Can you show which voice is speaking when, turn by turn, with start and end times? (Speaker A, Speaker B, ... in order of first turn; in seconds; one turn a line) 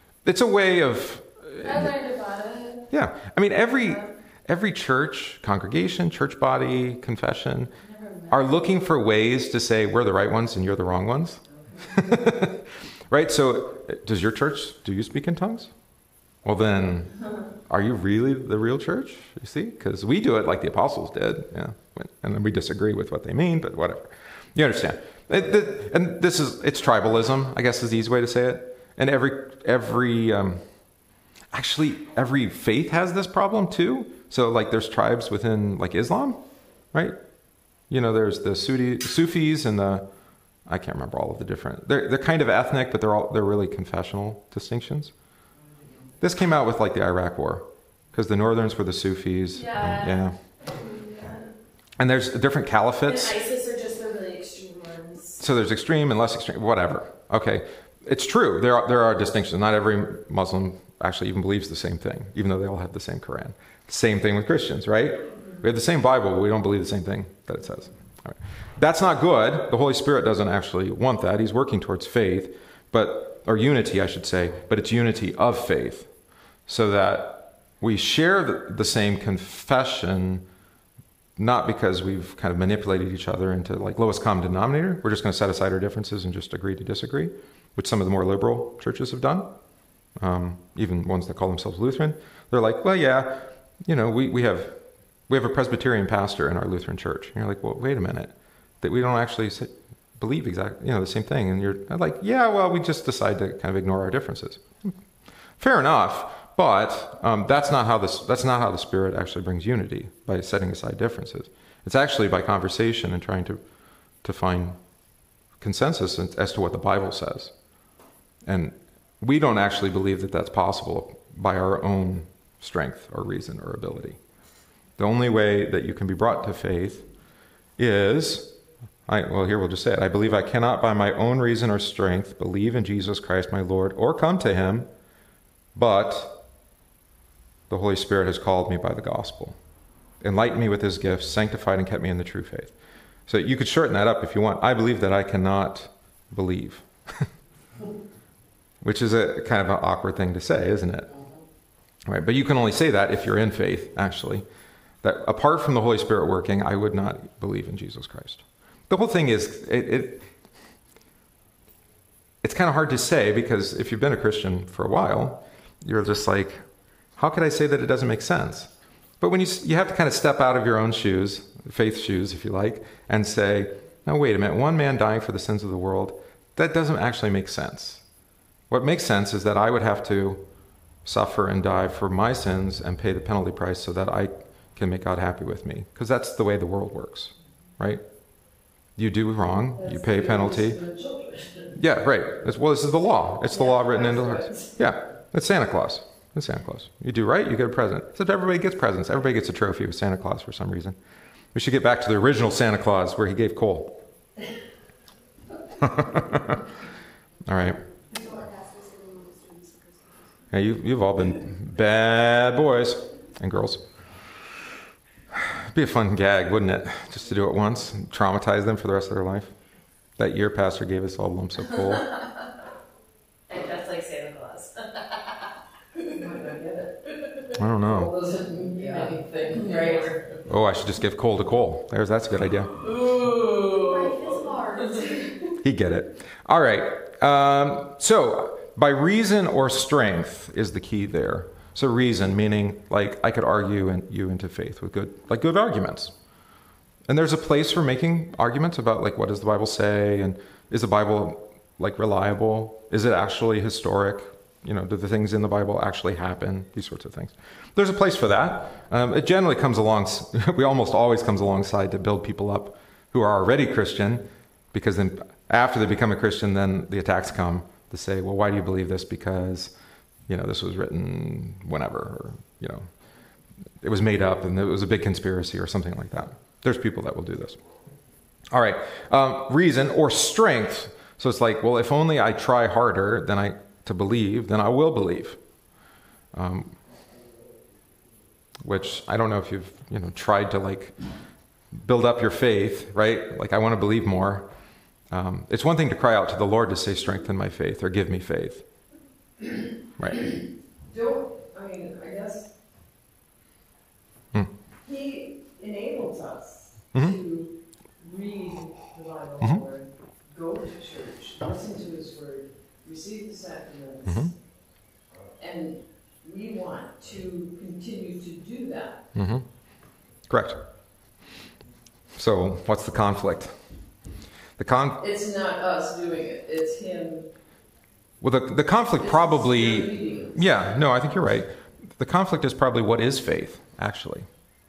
Speaker A: 0.2-1.9
Speaker B: 1.6-2.9
Speaker A: 2.9-7.7
Speaker B: 3.8-4.1
Speaker B: 7.8-8.4
Speaker A: 8.3-15.7
Speaker C: 11.5-12.2
Speaker A: 16.4-17.2
Speaker A: 17.7-30.6
Speaker A: 31.5-37.2
Speaker A: 37.9-40.1
Speaker A: 40.6-45.1
Speaker A: 46.2-50.4
Speaker B: 49.5-51.5
Speaker A: 52.0-53.4
Speaker B: 53.0-55.4
Speaker A: 55.4-76.1
Speaker A: 76.7-80.5
Speaker A: 81.4-89.5
Speaker A: 90.2-105.0
Speaker A: 105.6-113.6
Speaker A: 114.2-114.8
Speaker A: 115.6-117.5
Speaker A: 118.5-124.2
Speaker A: 125.0-127.1
Speaker A: 127.8-134.9
Speaker A: 135.7-136.4
Speaker A: 137.7-139.6
Speaker A: 140.2-142.7
Speaker A: 143.3-147.3
Speaker A: 148.8-151.1
Speaker A: 152.1-154.4
Speaker A: 155.0-160.3
Speaker A: 162.4-166.6
Speaker A: 167.2-168.7
Speaker A: 169.2-178.0
Speaker A: 178.7-180.5
Speaker A: 181.0-188.0
Speaker A: 189.0-190.8
Speaker C: 189.8-191.7
Speaker A: 191.8-201.0
Speaker C: 193.5-194.8
Speaker A: 201.5-204.0
Speaker A: 205.8-206.6
Speaker A: 207.5-207.8
Speaker D: 208.1-210.3
Speaker A: 210.5-213.9
Speaker A: 215.3-219.5
Speaker A: 220.2-222.1
Speaker B: 223.5-225.2
Speaker C: 226.0-230.2
Speaker A: 227.5-228.1
Speaker B: 228.9-230.2
Speaker A: 230.4-232.8
Speaker B: 233.0-233.9
Speaker D: 233.6-235.4
Speaker A: 235.6-246.1
Speaker A: 247.1-269.7
Speaker A: 270.3-272.9
Speaker A: 273.8-277.6
Speaker A: 278.5-285.4
Speaker A: 286.3-286.8
Speaker A: 288.6-290.9
Speaker A: 291.7-294.5
Speaker A: 295.1-298.6
Speaker A: 300.0-300.3
Speaker C: 300.9-302.5
Speaker C: 304.8-314.3
Speaker A: 314.1-314.3
Speaker C: 315.4-319.1
Speaker A: 319.1-319.4
Speaker A: 320.3-320.6
Speaker A: 322.1-323.5
Speaker A: 324.6-325.0
Speaker C: 325.0-327.3
Speaker A: 328.2-334.3
Speaker C: 329.0-330.6